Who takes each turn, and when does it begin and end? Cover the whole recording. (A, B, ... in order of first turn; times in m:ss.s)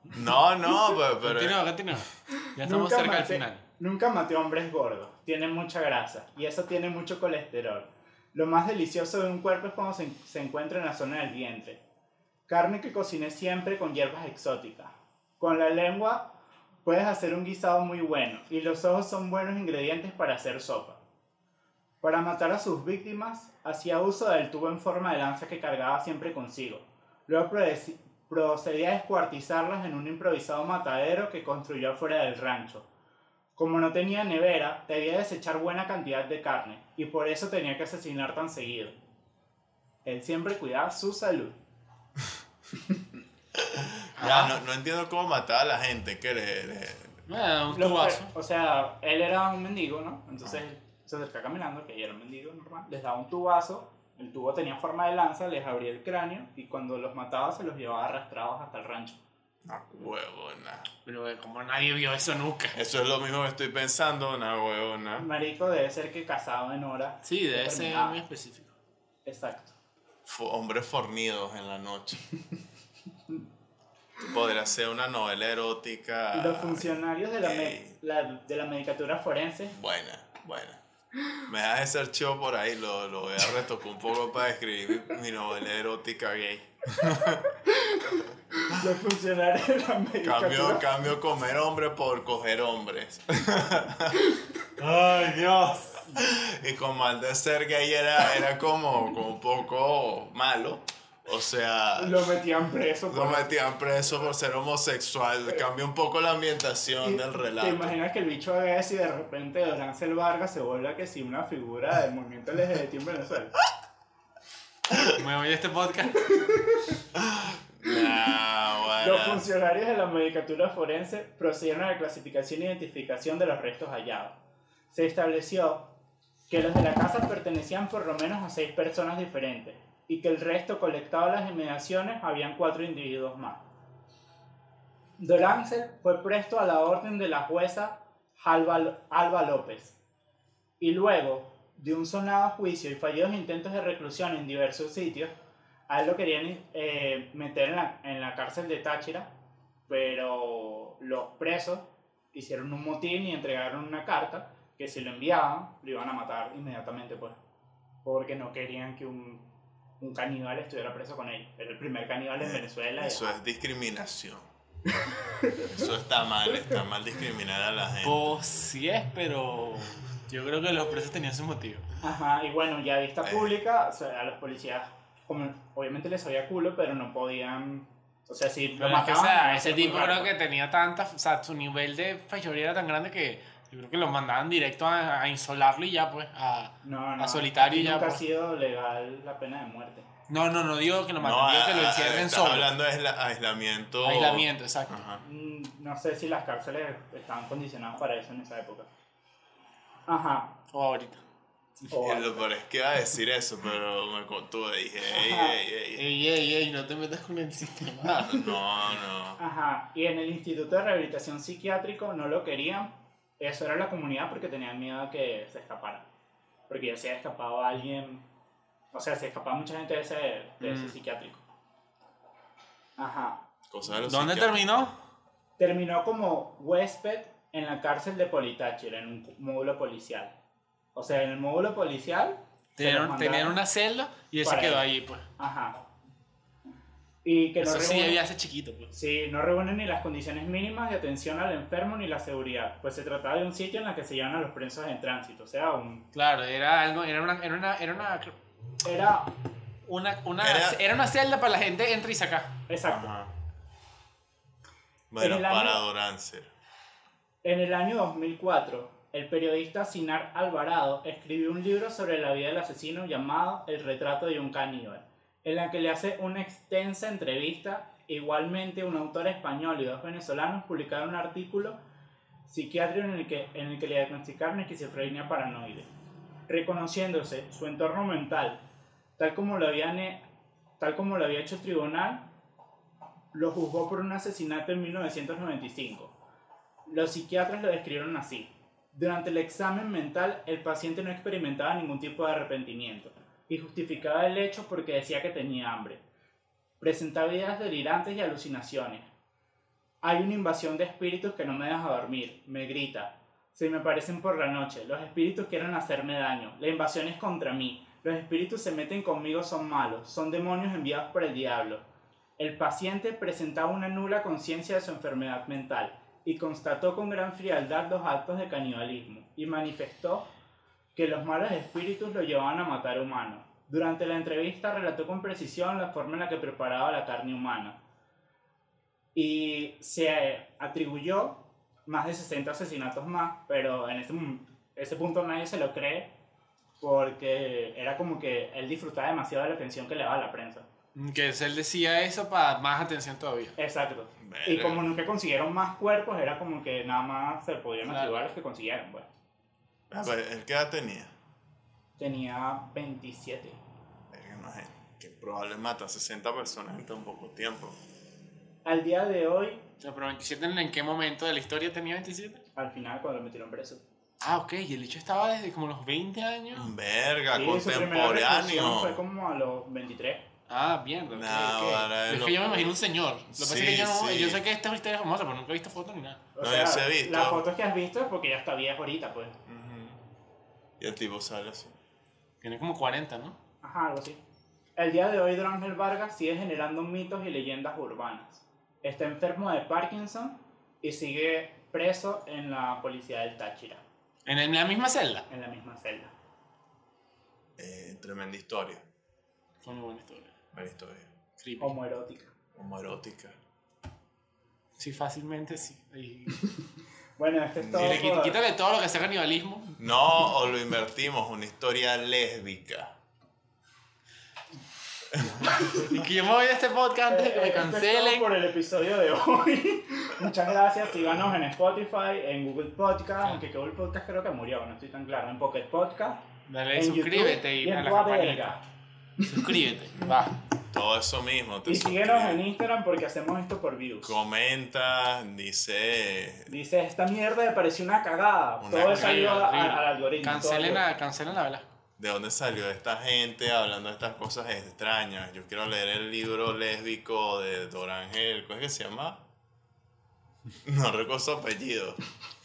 0:00.1-0:01.6 A
0:01.2-0:03.6 B
0:02.3-0:11.8 C
0:12.5-0:16.3 C
0:16.8-0:21.0 C
0:22.0-0:32.9 C
0:33.6-0:39.0 C
0:40.0-0:41.5 C
0:43.6-0:47.2 A
0:44.2-0:44.6 B
0:47.3-0:48.3 B
0:47.7-0:59.2 C
0:59.6-1:00.9 A
1:01.0-1:02.8 B
1:02.7-1:05.3 A
1:05.2-1:08.2 C
1:07.2-1:08.7 B
1:09.2-1:09.7 C
1:10.2-1:12.2 A
1:14.2-1:18.0 A
1:16.3-1:19.7 C
1:19.7-1:20.8 A
1:21.4-1:27.4 A
1:27.5-1:30.9 C
1:30.2-1:34.2 A
1:34.2-1:34.5 C
1:34.8-1:42.3 A
1:42.0-1:43.5 C
1:43.1-1:48.0 A
1:47.0-1:53.6 C
1:55.0-1:56.5 B
1:56.2-1:57.0 C
1:57.1-1:59.5 A
1:59.0-2:04.3 C
2:04.9-2:05.9 C
2:06.5-2:13.6 C
2:15.2-2:20.0 C
2:20.8-2:25.3 C
2:25.9-2:29.3 C
2:29.9-2:37.4 C
2:38.0-2:39.4 C
2:40.0-2:43.4 C
2:42.4-2:44.5 A
2:45.1-2:45.7 C
2:45.6-2:48.3 A
2:48.0-2:51.8 B
2:52.0-3:00.3 C
2:53.2-2:53.6 A
2:58.8-3:08.2 B
3:06.8-3:10.1 C
3:10.3-3:12.7 B
3:11.2-3:15.2 A
3:14.0-3:15.0 B
3:15.2-3:18.9 C
3:20.1-3:20.6 C
3:20.7-3:21.2 B
3:21.9-3:22.4 C
3:21.9-3:26.0 A
3:25.1-3:25.6 C
3:26.0-3:28.5 B
3:28.2-3:29.4 A
3:29.4-3:36.0 C
3:36.7-3:38.2 C
3:38.9-3:41.4 C
3:40.6-3:40.9 B
3:43.0-3:43.4 C
3:43.7-3:44.9 A
3:44.0-3:44.9 B
3:45.6-3:50.3 C
3:50.9-3:53.6 C
3:52.8-3:55.2 B
3:54.4-3:54.8 C
3:55.4-3:55.8 C
3:57.2-3:58.2 C
3:57.6-3:58.9 B
3:58.9-4:06.0 C
4:06.1-4:08.3 B
4:08.8-4:09.3 C
4:09.8-4:12.6 B
4:10.4-4:10.8 A
4:12.7-4:13.1 C
4:12.9-4:13.3 A
4:15.1-4:16.5 A
4:15.2-4:15.8 C
4:17.4-4:31.8 C
4:32.4-4:35.9 C
4:36.5-4:38.6 C
4:39.2-4:40.2 C
4:40.8-4:42.3 C
4:43.3-4:46.1 C
4:46.9-4:56.0 C
4:56.8-4:59.1 C
5:00.0-5:11.8 C
5:12.4-5:20.3 C
5:21.0-5:27.8 C
5:29.1-5:36.1 C
5:36.8-5:40.6 C
5:40.9-5:43.5 B
5:43.6-5:49.1 C
5:44.2-5:44.9 A
5:47.8-5:48.3 B
5:49.9-5:51.1 A
5:52.0-5:53.6 C
5:54.1-5:57.8 A
5:58.6-5:59.6 C
5:59.8-6:02.4 B
6:02.6-6:03.8 C
6:04.2-6:06.7 B
6:06.5-6:09.0 A
6:07.3-6:10.2 C
6:10.5-6:16.3 B
6:11.1-6:12.7 A
6:13.3-6:14.4 A
6:16.3-6:19.4 C
6:16.4-6:17.4 A
6:19.5-6:20.0 A
6:20.8-6:21.7 A
6:22.4-6:23.4 B
6:23.6-6:24.2 C
6:24.8-6:33.8 C
6:34.2-6:35.3 B
6:35.3-6:36.1 C
6:37.6-6:38.8 A
6:39.6-6:40.3 B
6:40.5-6:41.1 A
6:41.4-6:41.8 B
6:41.6-6:42.3 C
6:42.5-6:43.4 A
6:44.8-6:46.5 B
6:47.2-6:48.4 C
6:47.6-6:48.0 A
6:47.8-6:49.8 B
6:49.8-6:52.9 A
6:55.1-6:56.1 A
6:55.4-6:58.3 B
6:57.1-7:08.6 C
7:06.5-7:08.6 B
7:09.2-7:09.6 C
7:09.2-7:10.4 B
7:10.7-7:12.4 A
7:11.6-7:14.2 C
7:14.0-7:16.5 A
7:16.5-7:20.8 C
7:18.6-7:19.3 A
7:18.8-7:21.7 B
7:22.0-7:29.2 A
7:30.6-7:32.0 A